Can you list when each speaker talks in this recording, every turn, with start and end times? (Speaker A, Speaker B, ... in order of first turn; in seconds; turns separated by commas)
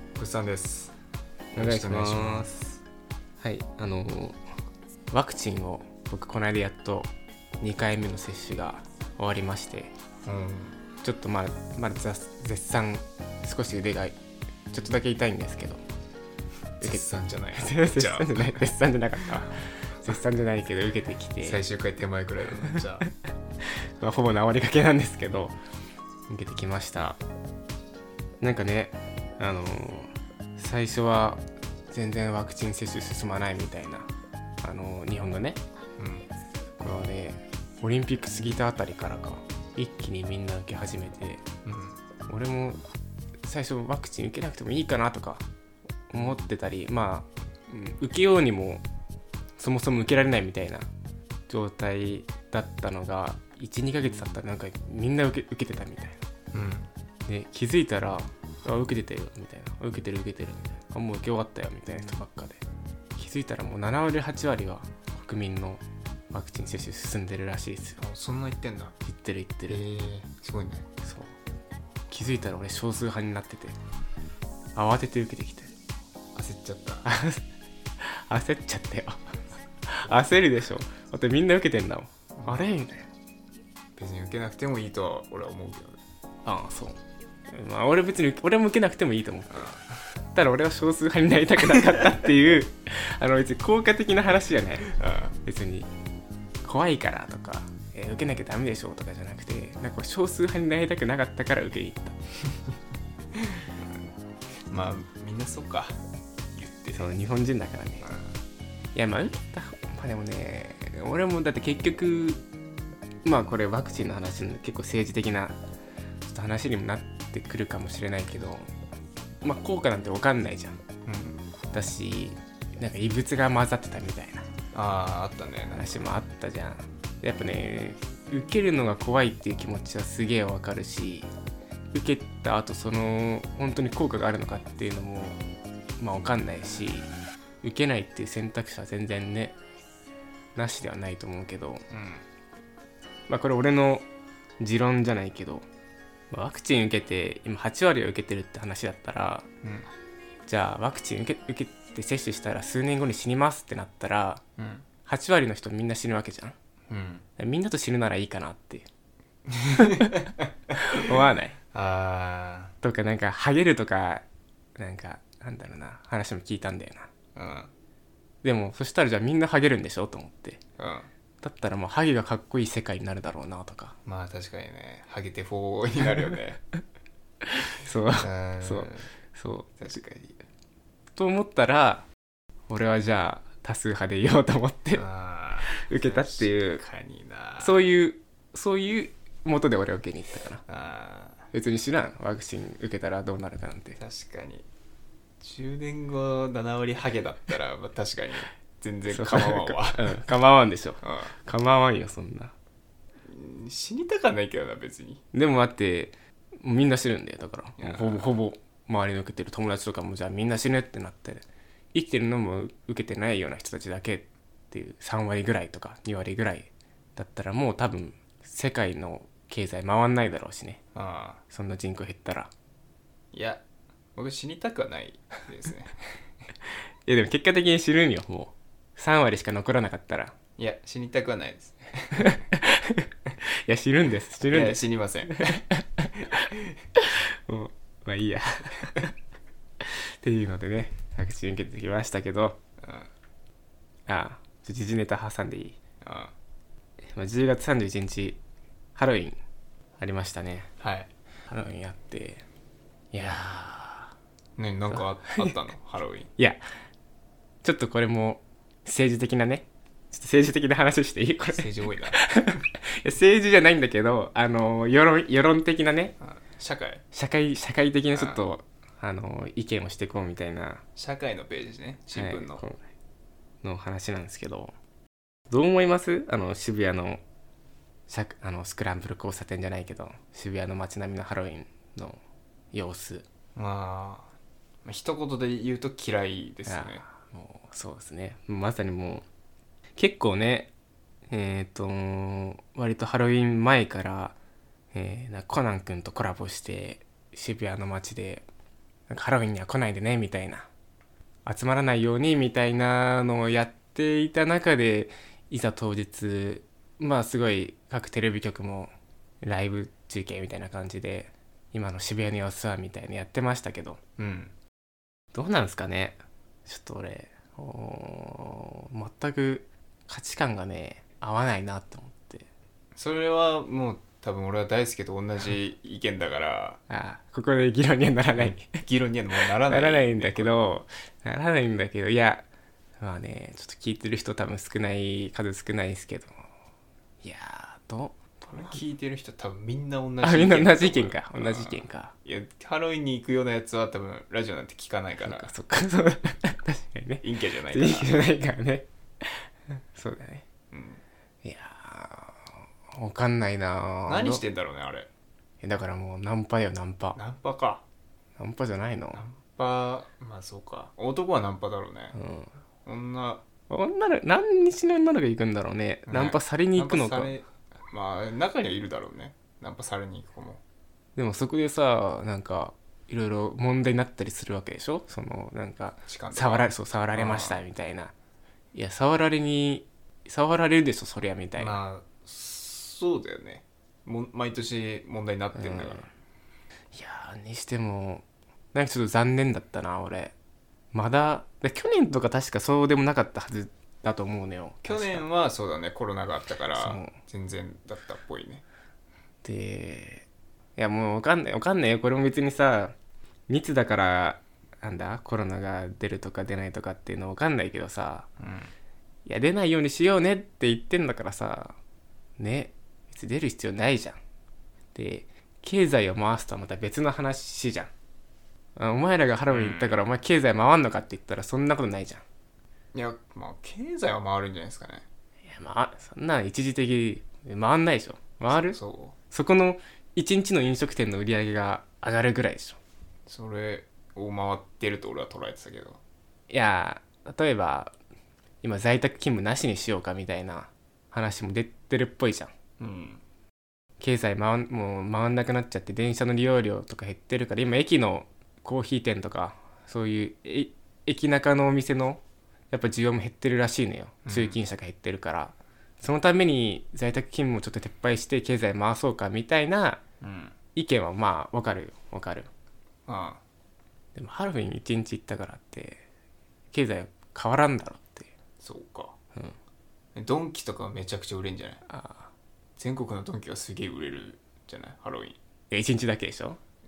Speaker A: 0.2-0.9, Speaker A: 1.5-2.5, Speaker B: 1.6-2.8, Speaker B: 3.4-4.4, Speaker B: 5.1-9.9, Speaker A: 10.2-10.8, Speaker B: 11.0-14.2, Speaker B: 14.7-15.8, Speaker A: 16.8-18.7, Speaker B: 17.6-21.6, Speaker A: 21.4-23.1, Speaker B: 24.0-25.6, Speaker B: 26.3-27.2, Speaker B: 28.4-34.1, Speaker B: 34.6-35.6, Speaker A: 36.0-36.3, Speaker B: 36.8-41.4, Speaker A: 41.6-42.0, Speaker B: 42.3-42.8, Speaker B: 43.4-45.4, Speaker B: 46.1-48.9, Speaker B: 49.6-50.9, Speaker B: 51.5-56.2, Speaker A: 56.5-56.9, Speaker B: 57.3-62.6, Speaker B: 63.2-68.0, Speaker A: 68.0-69.0, Speaker B: 69.0-69.8, Speaker A: 69.7-70.8, Speaker B: 71.0-71.3, Speaker B: 72.1-73.8, Speaker B: 74.8-75.7, Speaker A: 76.3-77.1, Speaker B: 77.0-77.4, Speaker B: 78.0-79.2, Speaker B: 79.9-83.1, Speaker A: 82.4-82.7, Speaker A: 84.0-86.0, Speaker B: 86.5-87.0, Speaker B: 87.5-89.6, Speaker A: 89.5-89.8, Speaker B: 90.3-94.9, Speaker A: 94.9-95.3, Speaker B: 95.4-95.9, Speaker B: 96.6-102.2, Speaker A: 103.4-104.2, Speaker A: 104.7-106.0, Speaker A: 106.5-107.1, Speaker B: 106.9-108.1, Speaker A: 108.0-108.3, Speaker B: 108.9-112.4, Speaker B: 113.2-115.5, Speaker B: 116.2-118.7, Speaker B: 119.4-120.8, Speaker A: 121.1-121.4, Speaker B: 121.7-124.5, Speaker A: 124.7-125.9, Speaker B: 125.7-131.3, Speaker B: 131.9-135.4, Speaker B: 136.0-137.1, Speaker B: 137.6-139.6, Speaker B: 140.6-141.8, Speaker A: 141.9-142.2, Speaker B: 143.3-144.0, Speaker B: 144.6-145.7, Speaker B: 146.3-149.5, Speaker A: 149.6-149.9, Speaker B: 150.5-154.4, Speaker A: 154.6-154.9, Speaker B: 155.1-156.6, Speaker A: 156.9-157.2, Speaker B: 157.4-158.9, Speaker A: 159.5-160.5, Speaker B: 160.8-161.6, Speaker A: 161.7-162.7, Speaker B: 162.8-164.2, Speaker B: 164.8-167.1, Speaker A: 167.4-167.7, Speaker B: 168.4-170.6, Speaker A: 170.8-171.1, Speaker B: 171.4-173.9, Speaker A: 174.1-176.6, Speaker B: 177.5-179.7, Speaker A: 178.2-179.1, Speaker A: 179.8-180.4, Speaker B: 181.2-182.0, Speaker B: 182.7-185.0, Speaker A: 184.9-187.8, Speaker B: 185.7-186.8, Speaker B: 187.6-190.6, Speaker A: 190.7-191.4, Speaker B: 191.5-194.0, Speaker A: 194.0-194.7, Speaker A: 195.4-200.2, Speaker B: 199.1-202.5, Speaker A: 201.0-201.3, Speaker A: 203.3-205.2, Speaker B: 205.3-220.8, Speaker A: 207.8-208.3, Speaker A: 220.9-221.4, Speaker B: 221.5-222.5, Speaker A: 223.3-223.6, Speaker A: 224.2-226.0, Speaker B: 227.1-230.3, Speaker A: 230.6-232.3, Speaker B: 232.2-233.1, Speaker B: 233.7-234.8, Speaker A: 234.5-235.5, Speaker B: 235.4-236.3, Speaker B: 237.0-239.1, Speaker B: 239.8-242.6, Speaker A: 242.8-243.1, Speaker B: 244.1-245.8, Speaker A: 246.0-246.3, Speaker B: 247.1-248.4, Speaker B: 249.0-249.4, Speaker B: 250.0-250.7, Speaker A: 250.8-251.1, Speaker B: 251.5-252.4, Speaker B: 253.1-254.1, Speaker A: 254.6-256.3, Speaker B: 254.9-255.6, Speaker B: 256.4-256.6, Speaker B: 257.6-266.1, Speaker A: 261.5-262.2, Speaker A: 266.2-267.0, Speaker B: 267.1-270.8, Speaker A: 268.1-268.4, Speaker A: 271.0-272.6, Speaker B: 272.1-272.8, Speaker B: 273.6-274.7, Speaker B: 275.5-277.2, Speaker B: 278.1-282.2, Speaker B: 282.7-283.3, Speaker A: 283.6-284.3, Speaker A: 284.9-287.1, Speaker B: 286.7-289.2, Speaker B: 290.0-290.7, Speaker B: 291.3-294.4, Speaker B: 294.9-298.4, Speaker B: 299.1-300.7, Speaker B: 301.5-314.0, Speaker A: 314.2-314.5, Speaker B: 315.3-322.5, Speaker A: 322.9-326.8, Speaker B: 326.9-328.8, Speaker A: 328.4-330.6, Speaker B: 329.7-332.5, Speaker B: 333.0-336.4, Speaker B: 337.2-338.8, Speaker A: 338.5-345.5, Speaker B: 340.2-342.1, Speaker B: 345.2-350.4, Speaker A: 347.2-348.2, Speaker A: 350.7-351.0, Speaker B: 351.4-354.4, Speaker A: 354.1-355.1, Speaker B: 355.6-357.2, Speaker A: 357.2-357.8, Speaker B: 358.4-359.2, Speaker A: 359.1-362.2, Speaker B: 362.1-362.5, Speaker A: 362.9-363.4, Speaker B: 363.7-367.3, Speaker A: 366.1-370.6, Speaker B: 371.2-378.1, Speaker A: 376.1-377.6, Speaker B: 378.7-381.8, Speaker A: 381.6-386.1, Speaker B: 385.5-386.1, Speaker B: 386.9-390.3, Speaker B: 390.9-395.3, Speaker A: 394.9-398.6, Speaker B: 396.8-397.1, Speaker B: 399.4-400.3, Speaker B: 400.8-402.9, Speaker B: 403.5-408.3, Speaker A: 408.4-408.7, Speaker B: 409.3-411.8, Speaker B: 412.4-414.2, Speaker B: 414.9-417.9, Speaker B: 418.8-422.2, Speaker A: 419.5-420.0, Speaker A: 422.9-425.1, Speaker B: 425.4-428.8, Speaker A: 428.5-429.2, Speaker B: 429.3-432.8, Speaker A: 433.3-436.0, Speaker B: 436.5-437.9, Speaker B: 438.6-442.5, Speaker A: 442.8-443.2, Speaker B: 444.0-460.0, Speaker A: 454.2-454.6, Speaker A: 460.2-460.6, Speaker B: 460.7-462.5, Speaker A: 463.1-463.4, Speaker B: 464.1-466.0, Speaker B: 466.7-468.3, Speaker A: 468.6-469.1, Speaker A: 470.1-471.8, Speaker B: 471.9-472.3, Speaker A: 472.8-475.4, Speaker B: 475.7-476.6